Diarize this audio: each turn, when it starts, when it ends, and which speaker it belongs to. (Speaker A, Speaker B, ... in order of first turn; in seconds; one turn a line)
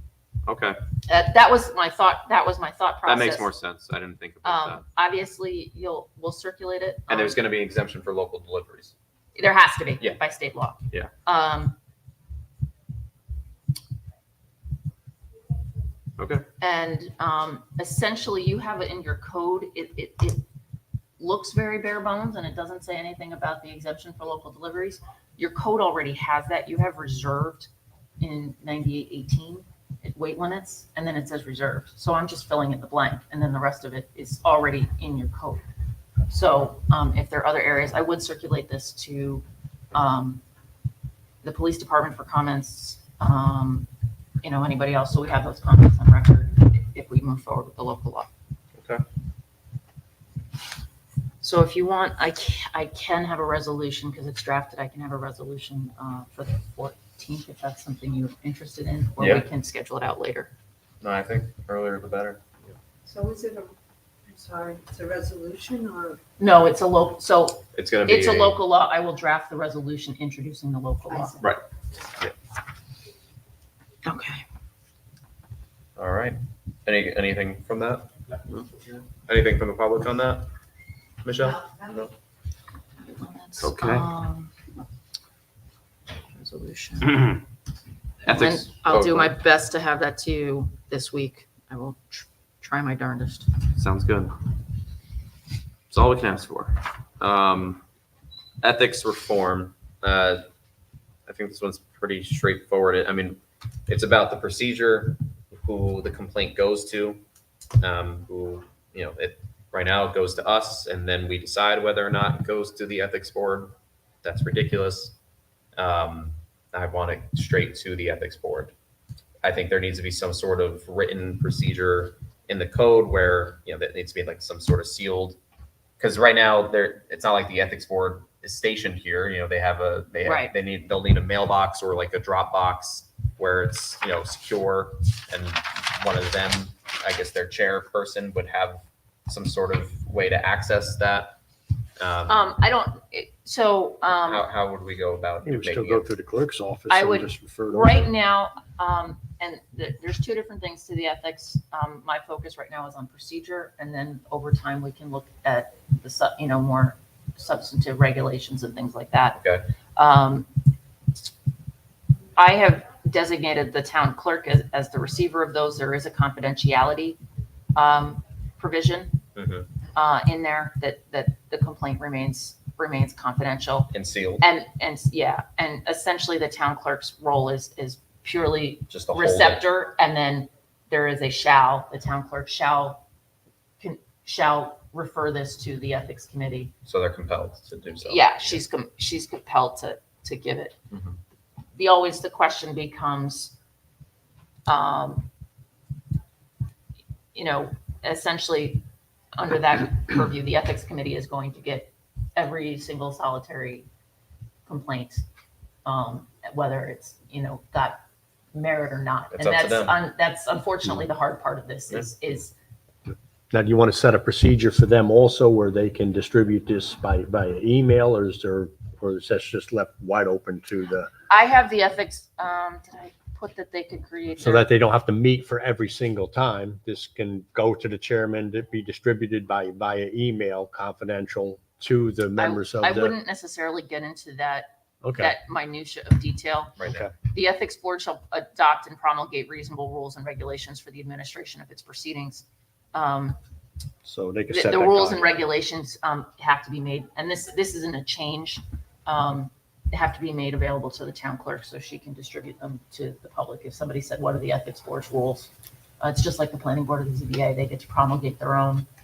Speaker A: 0.5-0.8
Speaker B: 1.1-3.5
Speaker A: 3.0-4.8
Speaker B: 4.4-7.4
Speaker A: 7.1-8.9
Speaker B: 9.3-11.8
Speaker A: 16.2-16.4
Speaker B: 16.6-20.4
Speaker B: 21.2-27.7
Speaker B: 28.2-35.6
Speaker B: 36.3-40.4
Speaker B: 41.4-43.9
Speaker B: 44.4-48.3
Speaker A: 48.8-49.0
Speaker B: 51.4-60.5
Speaker A: 59.2-59.4
Speaker A: 61.0-62.4
Speaker C: 63.0-63.7
Speaker C: 64.3-66.2
Speaker B: 66.4-71.4
Speaker A: 67.7-68.6
Speaker B: 74.0-74.4
Speaker A: 76.0-80.5
Speaker A: 81.2-82.1
Speaker B: 83.0-84.5
Speaker A: 83.6-84.1
Speaker B: 86.3-87.2
Speaker A: 88.2-89.3
Speaker B: 88.2-93.5
Speaker A: 93.8-94.3
Speaker A: 95.9-97.8
Speaker A: 98.6-100.4
Speaker A: 101.3-107.2
Speaker A: 107.8-115.1
Speaker A: 115.8-118.7
Speaker A: 119.4-125.4
Speaker A: 126.0-141.4
Speaker B: 130.2-130.5
Speaker A: 142.0-142.5
Speaker B: 142.3-144.5
Speaker A: 144.2-146.1
Speaker D: 145.4-148.1
Speaker B: 146.9-159.4
Speaker A: 159.3-159.7
Speaker B: 159.9-160.5
Speaker B: 162.3-167.2
Speaker B: 167.7-169.2
Speaker A: 169.3-169.7
Speaker B: 169.9-183.0
Speaker A: 173.9-174.4
Speaker A: 178.9-179.6
Speaker B: 183.8-186.7
Speaker A: 186.8-188.6
Speaker B: 188.0-190.8
Speaker A: 190.9-191.2
Speaker B: 191.8-193.5
Speaker B: 194.7-195.3
Speaker B: 197.3-198.8
Speaker B: 199.3-203.9
Speaker B: 204.7-205.2
Speaker B: 205.8-208.0
Speaker B: 208.5-212.5
Speaker A: 209.3-210.0
Speaker D: 213.5-221.1
Speaker B: 221.3-224.7
Speaker D: 224.4-233.1
Speaker B: 232.4-243.4
Speaker D: 235.0-235.3
Speaker A: 236.8-237.1
Speaker D: 236.8-237.1
Speaker D: 244.0-245.2
Speaker B: 244.5-258.9